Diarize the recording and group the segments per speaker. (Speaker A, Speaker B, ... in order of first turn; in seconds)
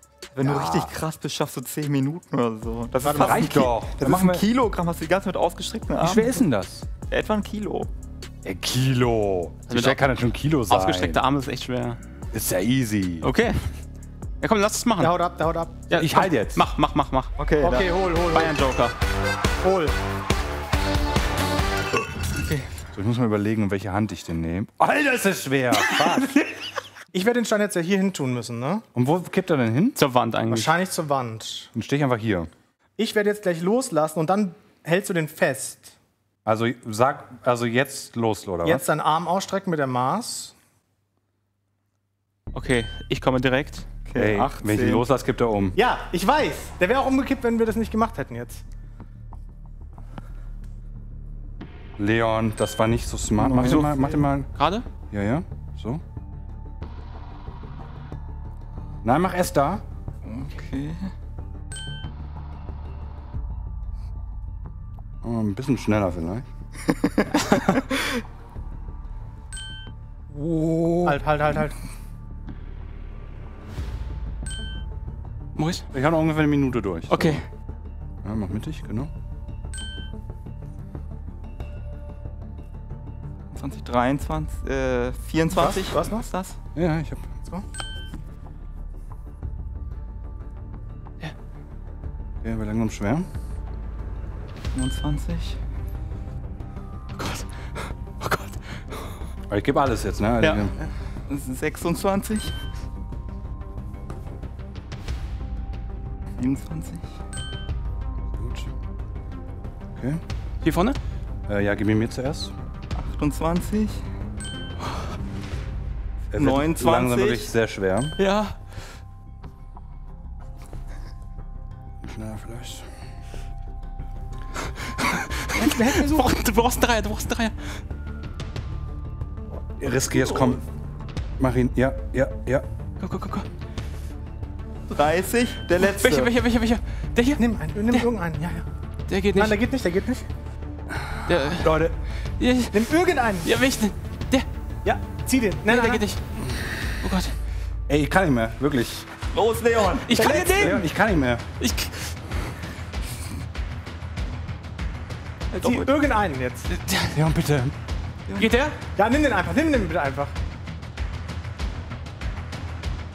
Speaker A: 0.3-6.4, 7.1-7.9, 17.4-17.9, 44.0-45.0, 53.4-54.2, 60.2-61.1, 83.5-86.6, 94.7-95.6, 101.3-102.5, 106.4-107.0, 112.9-114.0, 116.3-117.5, 134.9-136.3, 149.3-150.2, 155.5-155.9
Speaker B: 0.4-0.9, 3.1-4.4, 6.0-6.9, 8.4-11.2, 12.3-13.3, 15.9-16.6, 22.9-26.3, 28.9-30.0, 31.7-32.5, 36.5-38.8, 44.1-45.8, 52.0-54.5, 55.1-56.0, 59.0-59.8, 65.2-66.4, 70.3-71.2, 75.9-77.4, 78.2-79.1, 86.7-87.3, 92.4-93.3, 99.5-100.8, 108.3-108.7, 110.0-110.2, 111.5-112.5, 116.3-118.2, 122.0-122.9, 129.8-130.6, 131.4-132.7, 140.9-141.9, 147.9-149.1, 150.5-151.4, 157.1-157.7
Speaker C: 3.0-3.6, 15.0-15.8, 17.6-18.5, 19.6-20.0, 27.1-28.8, 30.5-31.7, 33.0-35.9, 38.6-40.5, 45.8-48.6, 71.0-71.8, 85.5-86.2, 125.5-126.3, 137.4-138.7, 139.3-140.3, 142.7-143.5, 144.8-146.1, 150.1-150.7, 155.6-156.7, 158.9-160.3
Speaker D: 9.7-10.0, 10.7-12.0, 13.2-13.7, 14.4-15.1, 15.9-17.3, 18.3-18.9, 25.7-26.4, 29.9-30.8, 42.5-43.9, 53.6-54.9, 75.5-75.9, 77.1-77.5, 97.2-97.5, 98.1-98.6, 100.4-100.7, 110.6-111.0, 118.2-118.6, 125.0-127.5, 133.0-133.5, 135.7-138.1, 139.1-139.6, 141.2-144.5, 145.7-146.2, 146.8-147.3, 150.1-150.9, 151.6-152.2, 156.7-157.2, 158.3-158.8